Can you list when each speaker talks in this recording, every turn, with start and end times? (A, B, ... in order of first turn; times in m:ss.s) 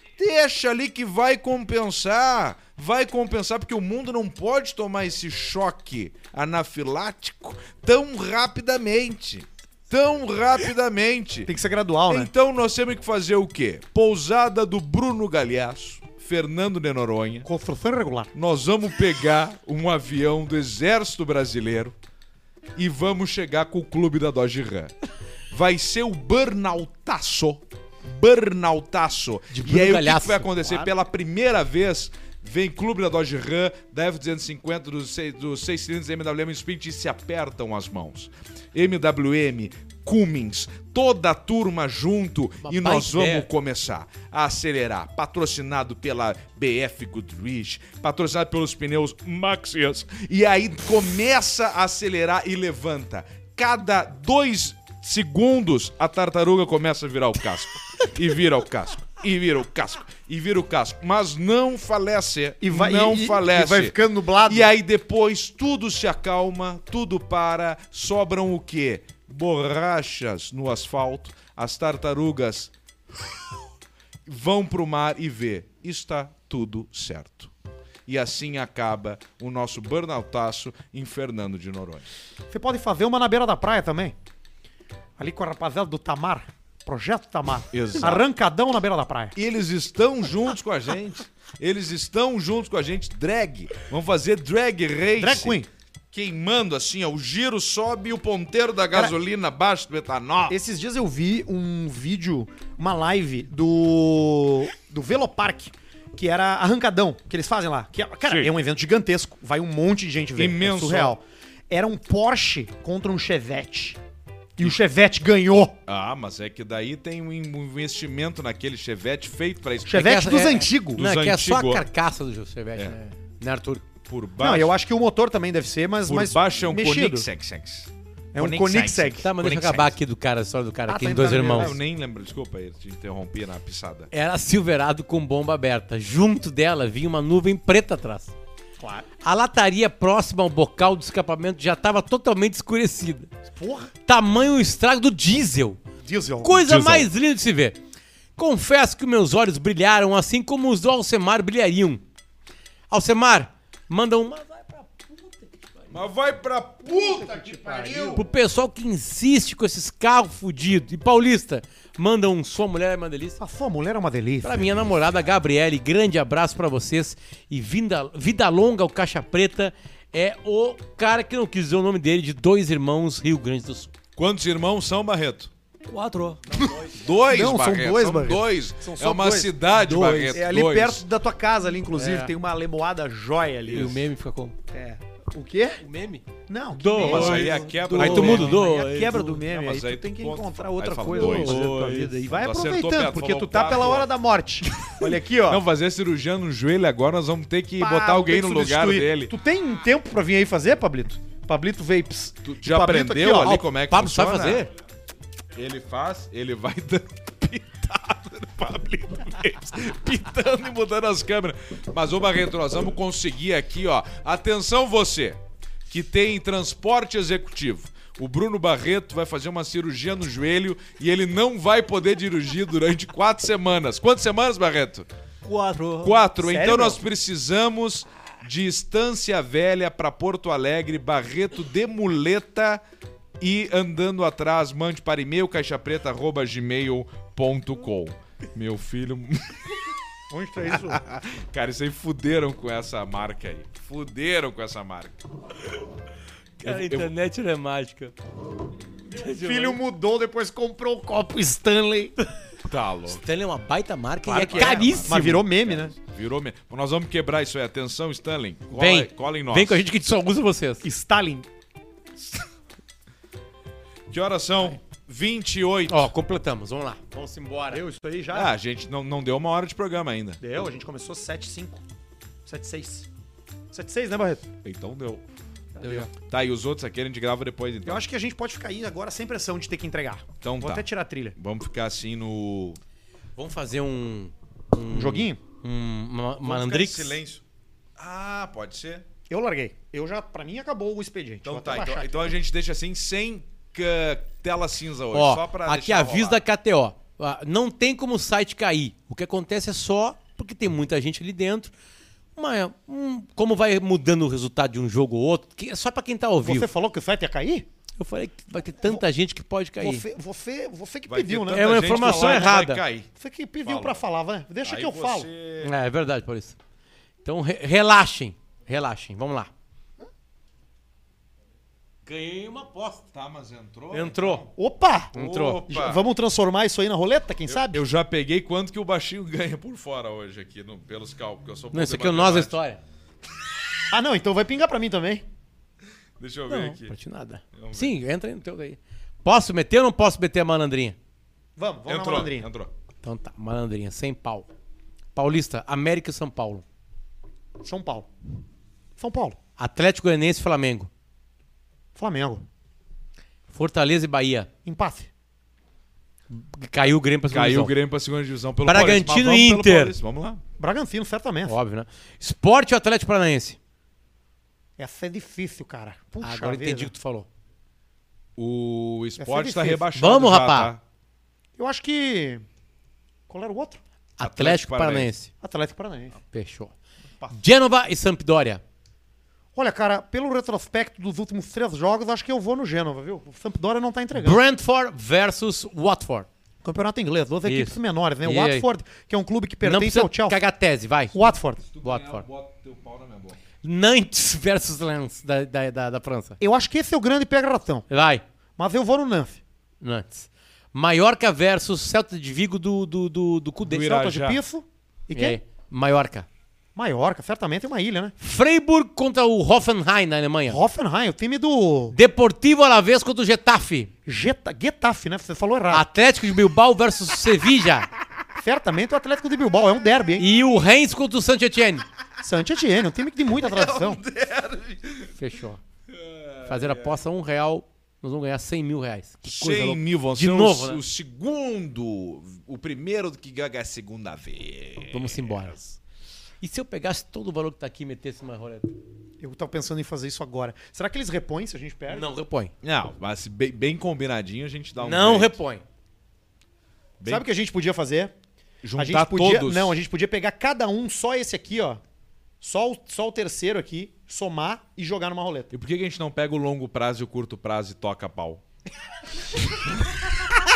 0:00.2-0:11.5 A
0:11.5-0:12.3 B
0:12.1-0:17.5 A
0:17.5-0:18.3 B
0:18.3-0:22.0 A
0:22.8-0:24.9 A
0:25.5-1:12.7 A
0:29.5-0:30.9 C
0:42.6-0:43.5 C
1:02.6-1:04.7 B
1:14.3-1:17.5 A
1:18.1-1:22.1 A
1:22.5-1:24.2 B
1:25.2-1:29.4 B
1:27.7-1:28.2 A
1:29.4-1:35.6 A
1:35.2-1:35.7 B
1:36.1-1:40.6 A
1:40.5-1:54.0 B
1:50.4-1:51.2 A
1:54.6-1:55.8 B
1:55.9-2:00.2 A
1:59.9-2:01.0 B
1:59.9-2:03.8 C
2:01.0-2:01.8 A
2:04.1-2:04.8 A
2:04.4-2:07.3 B
2:06.1-2:10.0 A
2:08.3-2:09.2 B
2:09.2-2:11.8 C
2:10.9-2:11.8 B
2:11.5-2:14.1 A
2:14.1-2:18.3 C
2:18.8-2:19.1 B
2:19.2-2:23.3 C
2:23.6-2:23.9 B
2:24.1-2:25.8 C
2:26.0-2:26.7 B
2:26.4-2:27.8 C
2:26.6-2:27.1 A
2:28.4-2:32.0 C
2:32.9-2:36.0 C
2:35.9-2:38.3 A
2:36.9-2:38.1 B
2:38.0-2:43.4 C
2:43.4-2:44.7 B
2:44.4-2:53.9 C
2:54.2-2:55.5 A
2:55.9-2:57.0 D
2:56.9-3:01.0 A
2:57.3-3:04.0 B
2:59.8-3:00.4 C
3:01.9-3:02.3 C
3:03.7-3:04.6 C
3:04.7-3:05.8 B
3:05.9-3:06.2 C
3:05.9-3:06.2 D
3:06.5-3:07.5 B
3:06.7-3:09.4 C
3:06.9-3:08.7 D
3:06.9-3:08.6 A
3:08.0-3:15.6 B
3:09.5-3:11.6 A
3:11.1-3:12.3 C
3:11.2-3:12.0 D
3:12.3-3:14.1 A
3:14.8-3:19.3 A
3:17.8-3:23.6 B
3:22.4-3:24.7 A
3:23.7-3:24.7 C
3:25.6-3:45.1 A
3:45.4-3:46.2 D
3:46.0-3:52.8 A
3:46.4-3:47.0 B
3:53.4-3:59.6 A
4:00.3-4:01.0 B
4:00.7-4:05.2 A
4:06.6-4:08.1 C
4:06.6-4:07.1 A
4:09.1-4:09.8 C
4:09.2-4:12.1 B
4:12.7-4:13.2 A
4:13.1-4:15.5 C
4:14.3-4:16.0 B
4:14.5-4:19.9 A
4:18.7-4:20.8 C
4:20.8-4:21.5 B
4:24.1-4:26.1 A
4:25.9-4:27.8 C
4:27.7-4:28.5 B
4:28.3-4:30.4 A
4:30.4-4:31.8 B
4:32.4-4:33.1 B
4:33.7-4:34.5 B
4:34.6-4:35.2 A
4:35.8-4:36.1 B
4:35.9-4:38.0 A
4:37.8-4:41.4 B
4:40.4-4:40.8 A
4:41.4-4:42.8 A
4:43.4-4:47.2 C
4:44.9-4:45.4 B
4:46.4-4:47.4 A
4:48.0-4:49.1 A
4:49.3-4:52.2 B
4:51.4-4:56.4 A
4:55.1-5:01.7 C
5:02.4-5:06.7 C
5:06.4-5:07.7 B
5:08.0-5:10.0 C
5:09.8-5:12.6 B
5:11.1-5:13.1 A
5:11.5-5:12.8 C
5:13.2-5:15.3 B
5:13.6-5:14.0 A
5:14.6-5:15.7 A
5:15.6-5:16.6 C
5:17.2-5:19.5 C
5:22.1-5:23.0 C
5:23.1-5:24.5 A
5:23.9-5:24.5 C
5:24.6-5:25.2 B
5:25.1-5:26.0 A
5:25.2-5:25.6 C
5:25.7-5:27.8 B
5:27.5-5:32.6 A
5:31.7-5:32.8 C
5:33.9-5:35.2 B
5:36.2-5:36.9 A
5:36.5-5:41.0 C
5:37.5-5:38.0 A
5:41.6-5:42.5 B
5:41.9-5:42.7 A
5:43.0-5:44.5 C
5:45.2-5:46.6 C
5:47.6-5:48.1 B
5:49.0-5:49.4 B
5:49.6-5:50.9 C
5:52.0-5:52.4 B
5:53.5-5:54.5 C
5:54.7-5:55.1 B
5:56.3-5:57.7 C
5:57.3-6:00.4 A
5:58.6-5:59.9 C
6:00.6-6:01.6 B
6:01.5-6:03.6 C
6:04.8-6:06.9 B
6:06.2-6:07.3 C
6:08.4-6:10.8 A
6:09.2-6:09.8 B
6:10.0-6:10.7 C
6:11.6-6:12.4 B
6:13.3-6:13.8 B
6:14.2-6:15.3 C
6:14.2-6:15.1 A
6:15.4-6:16.2 B
6:16.3-6:16.7 C
6:17.3-6:18.6 C
6:19.6-6:24.4 B
6:24.1-6:26.3 C
6:26.6-6:30.4 B
6:27.4-6:28.7 C
6:29.6-6:31.3 C
6:31.1-6:31.6 B
6:31.7-6:33.4 A
6:31.8-6:32.2 C
6:33.6-6:36.4 C
6:36.4-6:37.9 B
6:37.9-6:38.2 C
6:38.6-6:39.4 B
6:39.8-6:43.9 C
6:43.6-6:44.4 A
6:43.7-6:45.4 B
6:45.1-6:46.3 C
6:46.8-6:48.1 B
6:48.2-6:50.6 C
6:50.5-6:52.0 B
6:51.9-6:53.9 C
6:54.1-6:55.8 B
6:55.7-6:57.9 C
6:58.4-7:00.3 B
7:00.2-7:01.9 C
7:02.2-7:04.0 B
7:03.3-7:05.1 A
7:05.2-7:05.6 C
7:05.9-7:06.9 A
7:06.4-7:10.8 C
7:09.2-7:15.4 A
7:14.9-7:15.8 C
7:16.4-7:18.8 C
7:19.2-7:22.1 B
7:21.9-7:22.5 C
7:22.6-7:25.4 A
7:24.8-7:25.6 C
7:27.0-7:27.2 A
7:27.1-7:28.1 B
7:28.6-7:29.8 A
7:28.8-7:31.8 B
7:32.4-7:35.5 B
7:35.5-7:38.4 A